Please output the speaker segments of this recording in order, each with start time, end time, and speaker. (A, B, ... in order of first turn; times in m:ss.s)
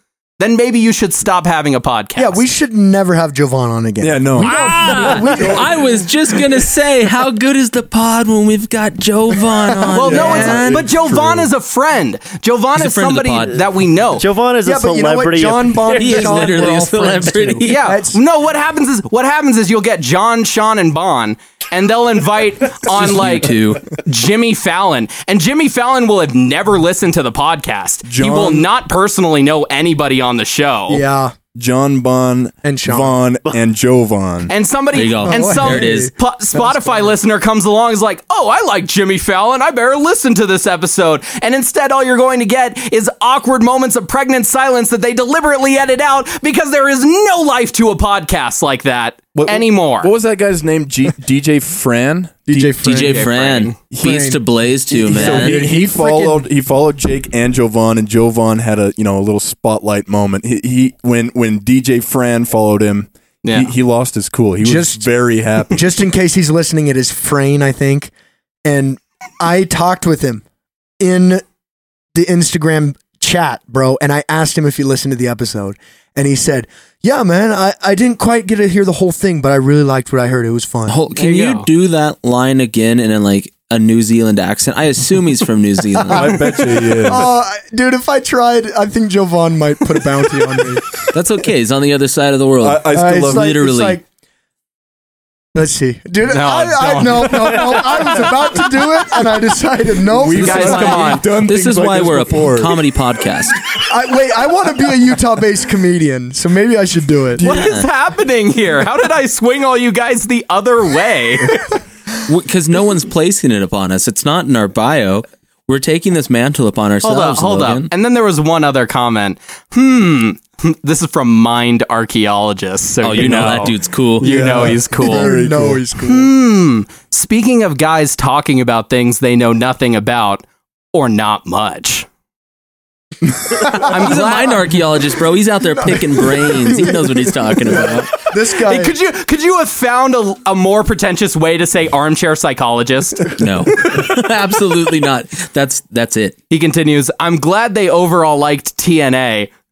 0:00.4-0:02.4 A
0:02.2-0:05.8 B
0:04.0-0:05.7 C
0:04.4-0:10.8 D
0:04.6-0:04.9 A
0:09.9-0:14.2 A
0:10.1-0:11.5 C
0:10.1-0:10.8 B
0:12.8-0:13.6 D
0:14.1-0:16.4 E
0:14.6-0:18.2 B
0:16.0-0:17.8 D
0:17.6-0:31.0 A
0:22.9-0:23.9 D
0:28.0-0:28.7 C
0:30.9-0:31.3 B
0:31.6-0:34.5 C
0:32.6-0:33.2 B
0:34.5-0:50.1 A
0:34.9-0:36.1 D
0:35.2-0:37.1 B
0:49.4-0:52.9 C
0:52.5-0:53.3 B
0:52.8-0:55.7 D
0:52.9-0:53.8 A
0:54.0-0:56.5 B
0:54.9-1:05.8 C
1:03.4-1:03.7 A
1:04.6-1:05.1 B
1:05.7-1:08.1 B
1:08.6-1:10.4 B
1:11.0-1:11.4 B
1:12.1-1:21.0 B
1:20.9-1:26.4 D
1:21.2-1:21.7 A
1:26.0-1:31.0 B
1:26.1-1:27.3 C
1:31.1-1:34.0 D
1:32.6-1:33.5 C
1:32.9-1:34.0 B
1:35.6-1:41.1 B
1:36.3-1:38.3 A
1:40.1-1:42.8 C
1:40.4-1:41.3 A
1:40.5-1:43.6 D
1:43.8-1:47.4 B
1:47.4-1:47.9 D
1:47.4-1:51.8 A
1:52.3-1:57.9 D
1:57.0-2:05.4 A
2:03.0-2:04.3 D
2:03.2-2:03.7 C
2:04.2-2:06.3 B
2:04.2-2:05.8 C
2:06.0-2:12.1 A
2:13.5-2:14.0 B
2:13.7-2:18.1 D
2:13.9-2:14.7 A
2:15.7-2:19.0 B
2:18.6-2:23.3 A
2:23.3-2:26.4 D
2:26.5-2:29.5 A